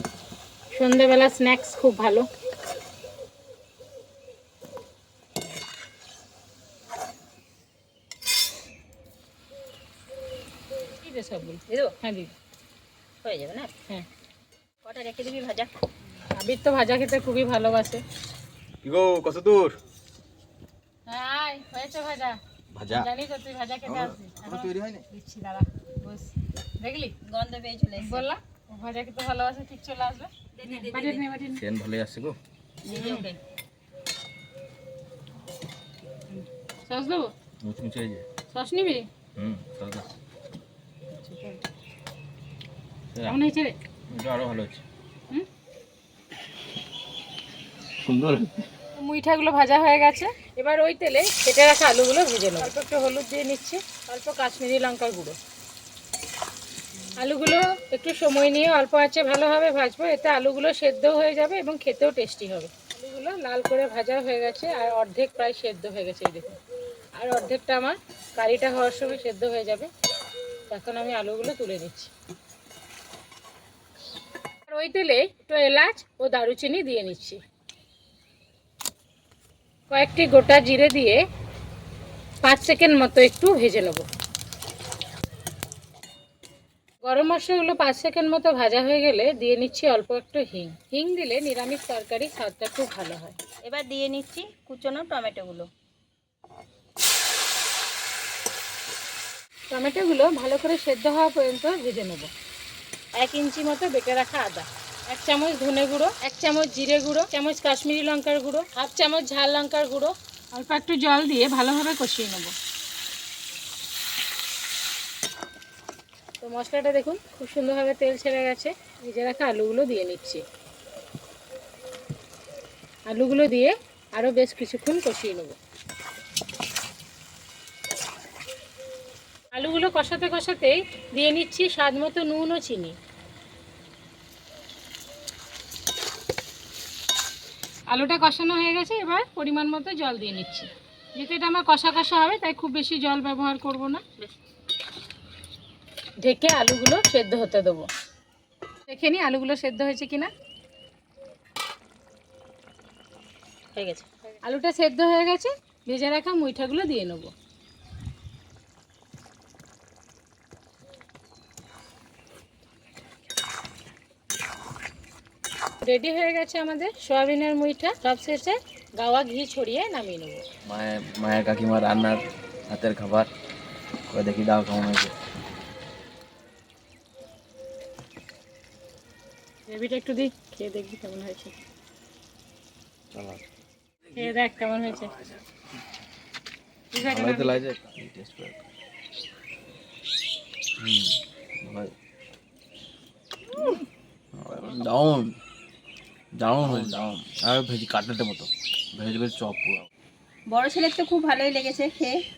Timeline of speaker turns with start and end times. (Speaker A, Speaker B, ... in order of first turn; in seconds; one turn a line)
Speaker A: 0.7-2.3
Speaker A: 11.0-12.3
Speaker B: 11.7-11.9
Speaker B: 13.2-13.7
Speaker B: 14.8-15.7
Speaker A: 16.3-18.0
Speaker C: 18.8-19.8
Speaker A: 21.1-27.1
Speaker C: 22.7-23.1
Speaker C: 23.9-25.0
Speaker B: 27.3-28.3
Speaker A: 28.0-31.6
Speaker B: 30.6-31.2
Speaker C: 31.5-32.4
Speaker B: 32.8-33.4
Speaker A: 32.9-33.2
Speaker A: 36.3-37.3
Speaker C: 37.6-38.2
Speaker A: 38.5-39.1
Speaker C: 39.4-40.1
Speaker A: 41.3-41.6
Speaker A: 43.2-43.8
Speaker C: 44.1-44.8
Speaker C: 48.0-48.6
Speaker A: 49.0-55.4
Speaker A: 57.2-66.6
Speaker A: 67.2-69.9
Speaker A: 70.7-72.1
Speaker A: 74.7-77.4
Speaker A: 79.9-81.2
Speaker A: 82.4-84.1
Speaker A: 87.0-93.4
Speaker B: 93.6-95.7
Speaker A: 99.7-102.3
Speaker A: 103.1-112.5
Speaker A: 116.4-120.4
Speaker A: 123.1-125.6
Speaker A: 129.5-133.0
Speaker A: 137.9-144.0
Speaker A: 146.2-147.9
Speaker A: 148.9-150.3
Speaker B: 153.8-154.1
Speaker A: 154.4-157.3
Speaker A: 165.8-170.4
Speaker C: 170.7-173.3
Speaker C: 174.1-175.2
Speaker A: 179.7-181.6
Speaker C: 183.1-183.4
Speaker A: 184.1-185.2
Speaker A: 186.9-187.7
Speaker C: 187.0-188.6
Speaker C: 190.8-191.9
Speaker C: 194.3-195.4
Speaker C: 196.4-199.9
Speaker B: 200.5-202.2